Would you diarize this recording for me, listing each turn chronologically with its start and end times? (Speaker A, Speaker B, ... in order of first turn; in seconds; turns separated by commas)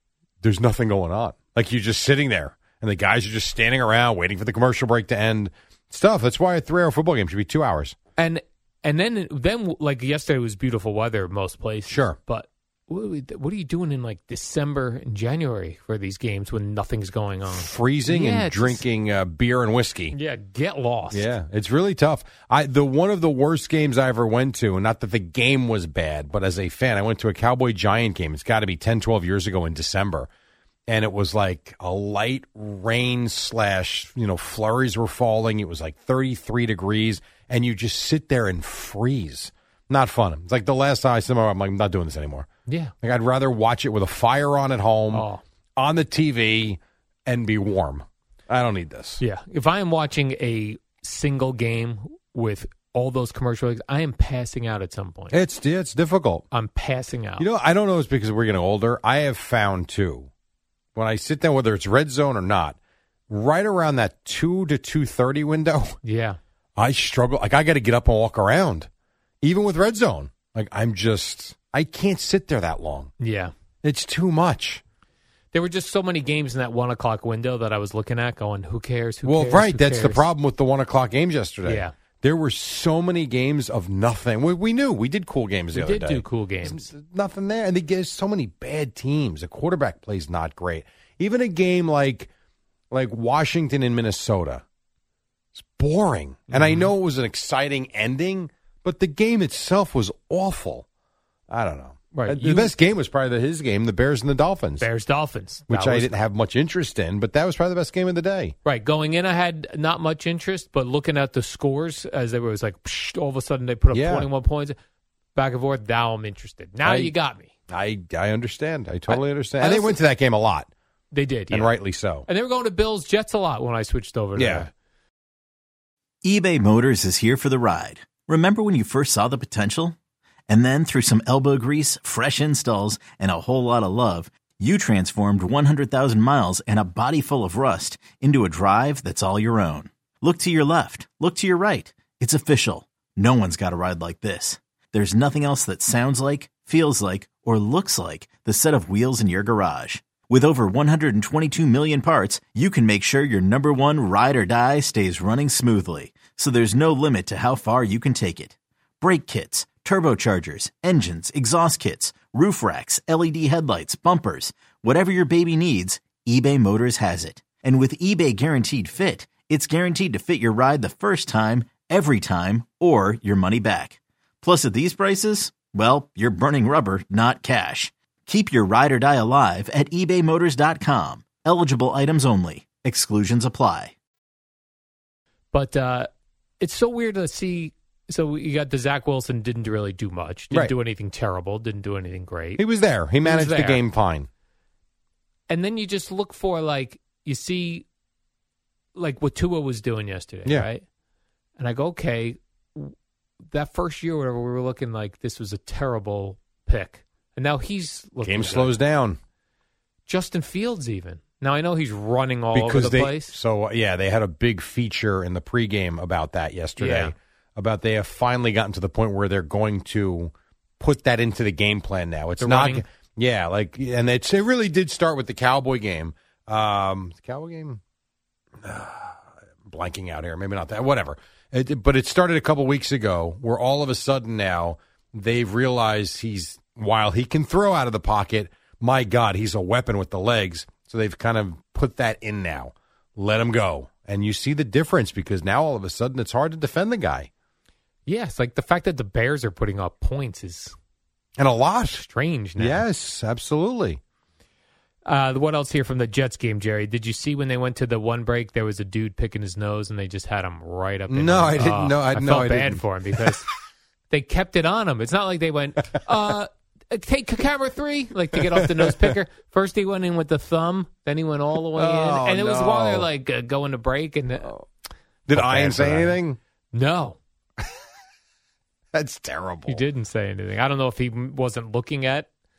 Speaker A: 0.4-8.0, Speaker B: 8.2-18.8, Speaker A: 11.9-12.2, Speaker A: 17.5-20.1, Speaker B: 20.1-21.3, Speaker A: 21.1-30.3, Speaker A: 30.9-42.5, Speaker B: 42.7-42.9, Speaker A: 43.0-45.2, Speaker B: 45.1-45.4, Speaker A: 45.8-49.2, Speaker B: 49.2-55.4, Speaker A: 55.3-56.4, Speaker B: 56.5-57.5, Speaker A: 57.4-60.3, Speaker A: 60.9-62.8, Speaker A: 63.3-66.0, Speaker B: 66.0-66.4, Speaker A: 66.8-68.9, Speaker A: 69.4-73.1, Speaker B: 73.2-73.5, Speaker A: 73.8-74.8, Speaker B: 75.5-80.3, Speaker A: 79.2-92.3, Speaker B: 81.6-81.9, Speaker B: 85.7-86.9, Speaker A: 92.9-94.6, Speaker A: 95.5-100.8, Speaker B: 96.5-96.9, Speaker A: 101.5-104.8, Speaker B: 102.1-102.7, Speaker B: 104.8-106.1, Speaker A: 105.7-108.5, Speaker B: 108.6-114.7, Speaker A: 113.9-114.3, Speaker B: 115.3-117.5, Speaker A: 116.8-117.1, Speaker A: 117.7-120.7, Speaker B: 119.1-120.0, Speaker B: 121.1-124.7, Speaker A: 121.5-122.3, Speaker A: 124.3-124.7, Speaker C: 126.2-129.9, Speaker C: 130.5-183.9, Speaker B: 185.5-186.1, Speaker B: 186.6-192.6, Speaker A: 192.6-194.3, Speaker B: 193.2-193.8, Speaker B: 195.5-197.8, Speaker B: 198.9-200.8, Speaker B: 201.6-202.9, Speaker B: 203.5-208.8, Speaker A: 208.2-209.2, Speaker B: 210.1-213.4, Speaker A: 212.5-227.8, Speaker B: 216.8-217.1, Speaker B: 222.4-222.8, Speaker A: 228.6-247.3, Speaker B: 248.1-250.7, Speaker A: 251.4-252.0, Speaker B: 251.9-252.8, Speaker A: 252.6-254.0, Speaker B: 255.1-263.5, Speaker A: 261.1-262.8, Speaker B: 264.1-274.6, Speaker A: 268.4-269.2, Speaker A: 271.8-273.1, Speaker A: 275.3-276.4, Speaker B: 275.3-276.2, Speaker B: 276.7-277.2, Speaker A: 278.9-279.8, Speaker B: 279.7-282.3